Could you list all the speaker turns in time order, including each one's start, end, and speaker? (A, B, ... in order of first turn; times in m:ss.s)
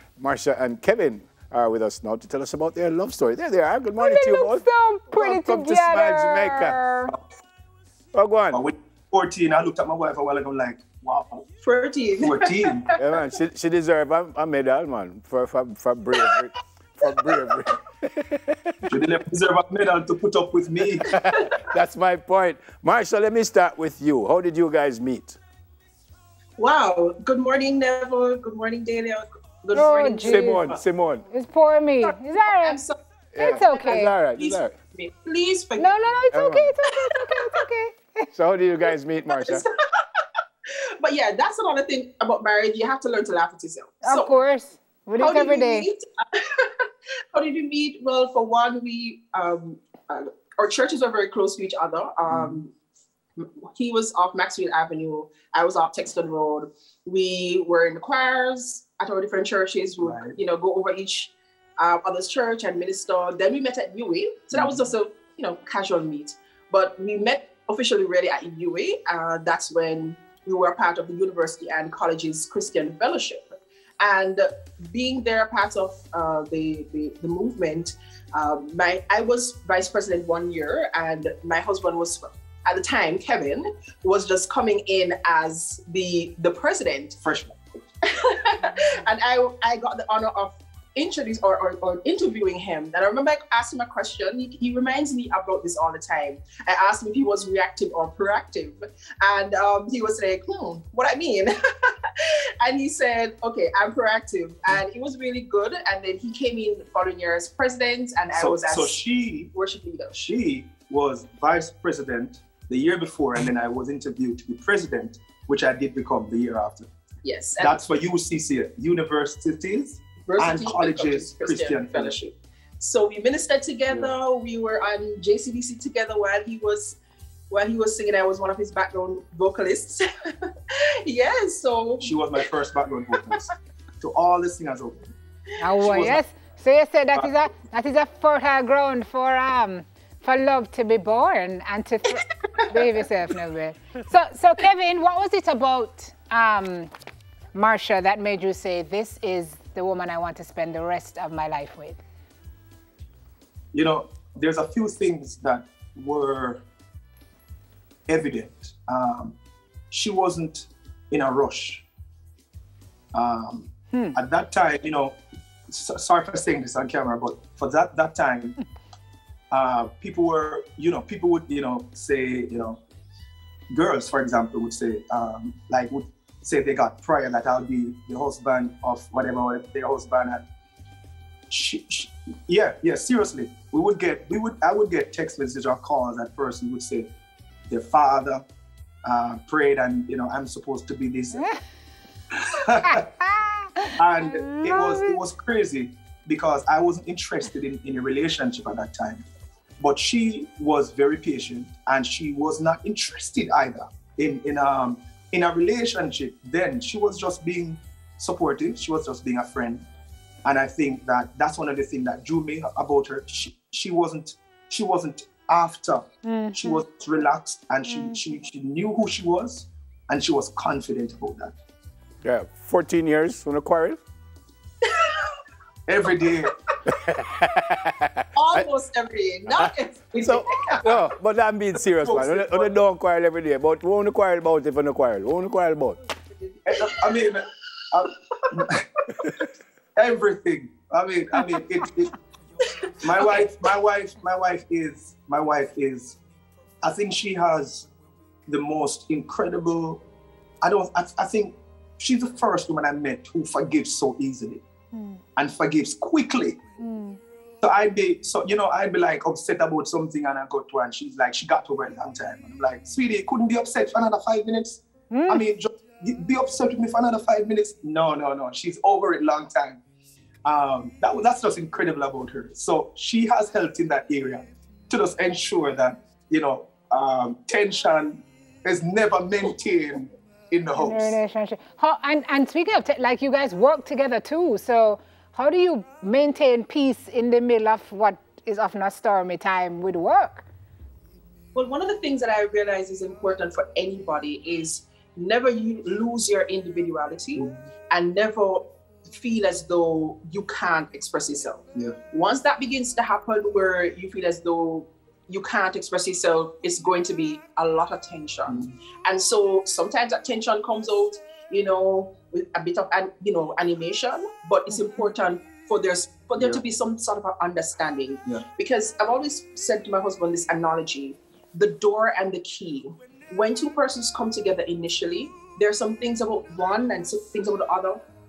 0:00.2-0:06.8 A
0:04.0-0:07.1 B
0:08.1-0:08.6 A
0:08.5-0:11.4 C
0:11.6-0:13.2 D
0:12.2-0:12.9 C
0:13.0-0:18.9 A
0:18.9-0:21.1 C
0:21.1-0:25.4 A
0:26.6-0:30.8 D
0:29.7-0:30.6 B
0:30.3-0:31.2 A
0:31.3-0:32.8 B
0:32.0-0:36.0 D
0:33.4-0:34.7 A
0:33.4-0:34.1 B
0:35.8-0:38.3 B
0:38.4-0:39.6 A
0:39.3-0:39.7 D
0:41.0-0:44.4 D
0:44.0-0:45.9 B
0:45.2-0:52.7 D
0:52.3-0:52.6 C
0:53.4-1:13.5 D
1:00.0-1:00.3 C
1:04.5-1:04.8 C
1:14.0-1:27.2 D
1:27.2-1:27.6 C
1:28.0-1:49.0 D
1:48.3-1:49.5 C
1:49.5-1:50.2 D
1:50.2-1:56.9 C
1:57.2-1:57.8 D
1:57.6-2:02.2 C
2:00.3-2:07.0 D
2:07.5-2:12.4 D
2:12.0-2:13.5 C
2:14.0-2:15.1 C
2:15.6-2:26.9 B
2:15.9-2:16.2 C
2:27.5-2:32.0 B
2:33.7-2:36.6 C
2:38.1-2:39.4 C
2:39.9-2:41.8 C
2:43.1-2:45.2 C
2:45.7-2:48.6 C
2:49.5-2:52.8 C
2:53.7-3:00.4 C
3:01.5-3:07.1 C
3:07.7-3:08.4 C
3:09.0-3:11.5 C
3:12.6-3:13.0 C
3:12.9-3:13.6 B
3:14.0-3:19.2 C
3:14.3-3:15.2 B
3:19.8-3:29.9 C
3:30.4-3:36.0 C
3:36.2-3:36.8 B
3:36.6-3:41.5 C
3:37.8-3:38.2 B
3:42.2-3:44.0 A
3:44.9-3:45.3 D
3:45.9-3:46.5 C
3:46.9-3:48.6 A
3:48.4-3:51.0 D
3:50.2-3:56.0 A
3:52.0-3:52.7 C
3:56.7-3:58.8 C
4:00.0-4:02.2 C
4:03.0-4:06.2 C
4:06.8-4:07.9 C
4:08.5-4:10.0 C
4:10.6-4:14.6 C
4:14.9-4:15.2 B
4:15.4-4:16.6 C
4:16.8-4:17.2 B
4:17.6-4:29.8 C
4:25.1-4:25.4 B
4:30.4-4:41.2 C
4:40.8-4:50.5 B
4:51.5-5:28.0 D
5:08.5-5:08.7 C